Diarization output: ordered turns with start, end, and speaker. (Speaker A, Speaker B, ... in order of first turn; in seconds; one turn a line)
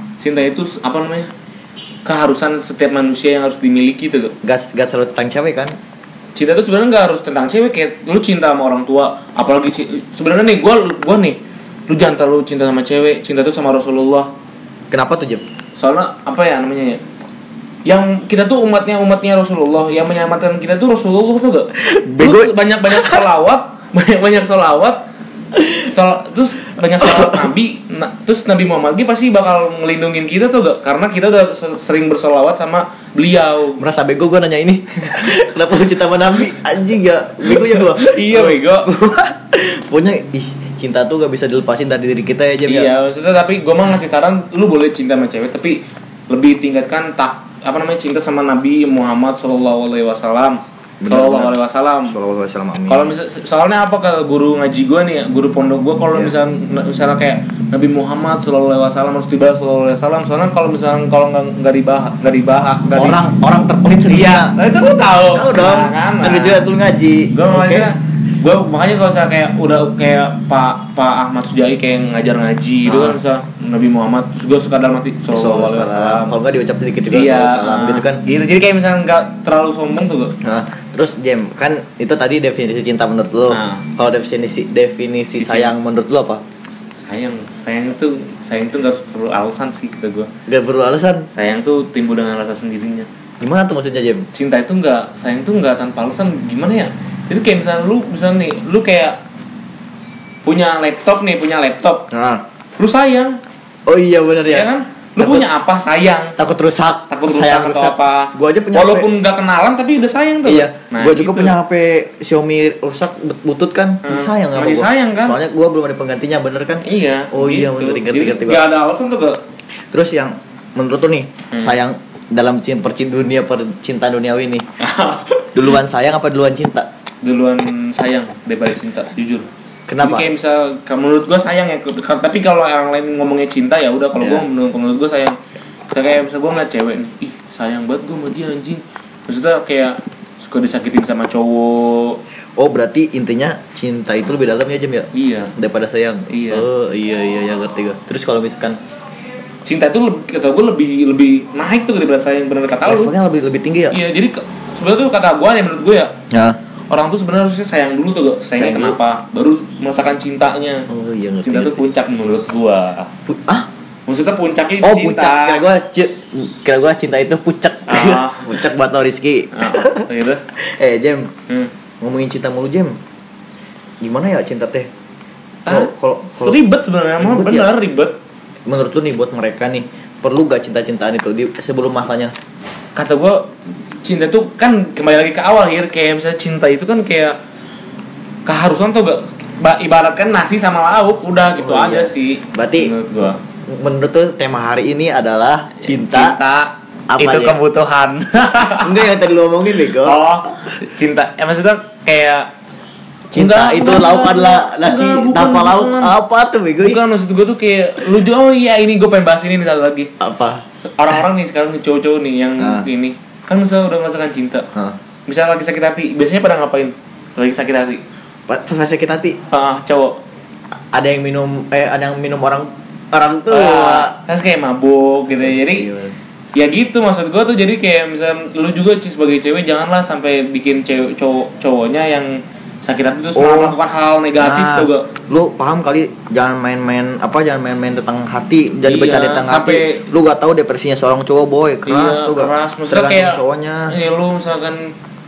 Speaker A: 0.2-1.3
Speaker A: 2.0-4.3
Speaker B: 4.4-5.8
Speaker A: 6.3-14.3
Speaker B: 14.9-15.4
Speaker A: 15.8-17.0
Speaker A: 17.9-25.0
Speaker B: 21.8-23.2
Speaker B: 25.5-25.9
Speaker A: 25.8-33.8
Speaker B: 27.0-27.5
Speaker B: 33.8-42.9
Speaker A: 37.5-38.9
Speaker A: 42.7-52.2
Speaker B: 51.0-53.1
Speaker A: 52.9-63.2
Speaker B: 62.9-67.9
Speaker A: 64.1-66.7
Speaker A: 67.3-76.3
Speaker B: 72.8-73.2
Speaker B: 75.3-78.2
Speaker A: 77.1-80.3
Speaker B: 80.4-86.4
Speaker A: 83.5-83.8
Speaker A: 85.3-85.7
Speaker A: 86.9-90.3
Speaker B: 90.5-91.3
Speaker A: 91.3-93.1
Speaker B: 93.4-94.3
Speaker A: 94.3-99.2
Speaker A: 100.5-102.1
Speaker B: 102.1-102.4
Speaker A: 102.8-103.4
Speaker B: 103.9-105.5
Speaker A: 104.5-106.4
Speaker B: 106.4-109.1
Speaker A: 107.1-111.5
Speaker B: 110.5-118.7
Speaker A: 114.0-115.4
Speaker A: 116.8-119.4
Speaker B: 119.9-124.7
Speaker A: 121.5-121.8
Speaker A: 124.8-125.5
Speaker B: 125.5-126.9
Speaker A: 127.2-129.5
Speaker B: 129.9-130.3
Speaker A: 130.0-135.4
Speaker B: 134.2-134.4
Speaker A: 135.9-142.2
Speaker B: 142.6-148.8
Speaker A: 145.1-145.5
Speaker A: 146.3-146.7
Speaker A: 149.7-153.1
Speaker B: 152.8-154.0
Speaker A: 153.9-156.1
Speaker B: 156.3-156.6
Speaker A: 156.9-160.9
Speaker B: 158.5-159.0
Speaker B: 160.9-161.8
Speaker A: 161.4-163.1
Speaker B: 163.3-163.7
Speaker A: 164.1-165.6
Speaker B: 164.8-171.3
Speaker A: 167.9-168.6
Speaker A: 169.5-170.4
Speaker B: 172.0-173.0
Speaker B: 174.0-174.9
Speaker A: 175.7-178.2
Speaker B: 175.7-176.6
Speaker B: 177.2-177.7
Speaker B: 178.7-182.3
Speaker A: 183.0-183.5
Speaker A: 184.0-187.4
Speaker A: 188.5-193.4
Speaker B: 191.6-192.9
Speaker B: 193.7-196.4
Speaker A: 195.8-199.1
Speaker B: 197.1-197.6
Speaker B: 198.8-200.2
Speaker A: 199.9-202.5
Speaker B: 203.3-207.0
Speaker A: 203.3-206.1
Speaker A: 206.8-210.1
Speaker B: 210.2-210.6
Speaker A: 210.9-214.7
Speaker B: 212.6-212.9
Speaker A: 215.3-218.0
Speaker B: 218.5-219.4
Speaker A: 219.5-220.2
Speaker B: 220.9-224.1
Speaker A: 223.5-225.9
Speaker B: 225.3-226.1
Speaker A: 226.6-235.1
Speaker B: 233.3-233.8
Speaker B: 234.4-243.9
Speaker A: 238.8-240.1
Speaker A: 241.9-244.9